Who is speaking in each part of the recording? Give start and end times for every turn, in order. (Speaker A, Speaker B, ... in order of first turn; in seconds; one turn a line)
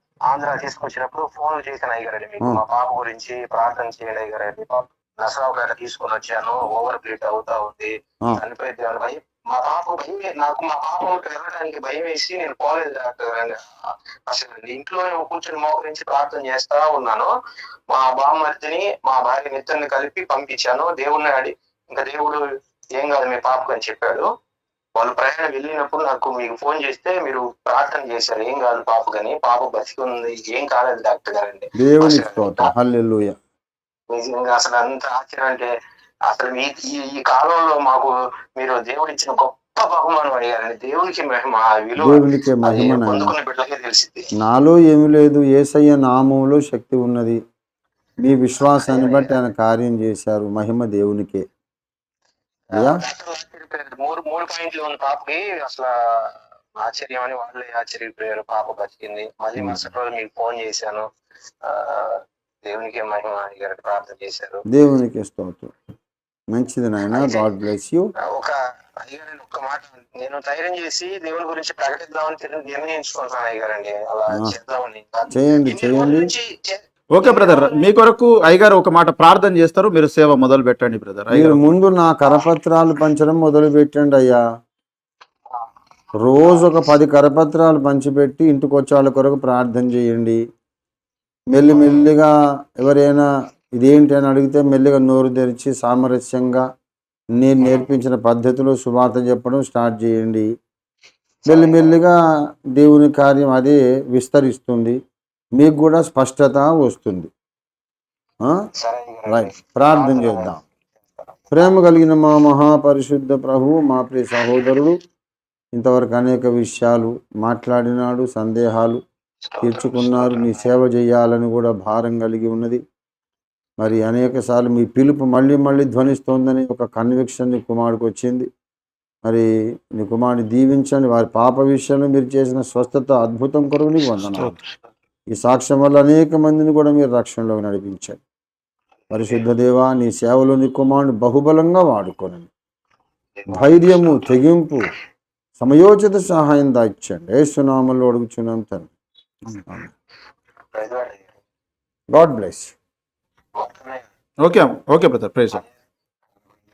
Speaker A: 0.3-13.6
Speaker A: 14.3-17.3
Speaker A: 17.9-22.4
Speaker A: 23.0-24.2
Speaker A: 25.0-32.7
Speaker B: 31.8-33.4
Speaker A: 34.1-35.7
Speaker A: 36.3-44.2
Speaker B: 42.0-43.3
Speaker B: 44.4-47.4
Speaker B: 48.2-51.4
Speaker A: 48.6-49.3
Speaker A: 52.7-55.9
Speaker B: 52.7-53.0
Speaker A: 56.8-61.0
Speaker A: 61.6-64.6
Speaker B: 64.7-65.7
Speaker B: 66.5-68.1
Speaker A: 67.1-67.5
Speaker A: 68.3-77.8
Speaker B: 75.3-76.3
Speaker C: 77.1-81.6
Speaker B: 81.3-84.4
Speaker B: 86.2-90.4
Speaker A: 86.4-86.7
Speaker B: 91.5-96.7
Speaker A: 91.7-92.1
Speaker B: 97.4-100.5
Speaker A: 97.6-97.9
Speaker A: 101.4-102.0
Speaker B: 101.5-102.2
Speaker B: 102.7-105.0
Speaker B: 105.6-107.3
Speaker A: 108.8-110.6
Speaker B: 109.3-110.6
Speaker A: 111.2-111.8
Speaker B: 111.5-115.0
Speaker B: 115.7-119.0
Speaker A: 119.4-120.7
Speaker B: 119.6-122.8
Speaker B: 123.8-128.5
Speaker B: 129.2-134.6
Speaker B: 135.3-138.2
Speaker A: 139.1-139.5
Speaker B: 139.1-142.5
Speaker A: 143.4-144.3
Speaker B: 143.5-144.9
Speaker B: 145.6-148.9
Speaker A: 150.7-151.3
Speaker B: 152.1-152.7
Speaker A: 153.6-154.0
Speaker C: 154.4-155.6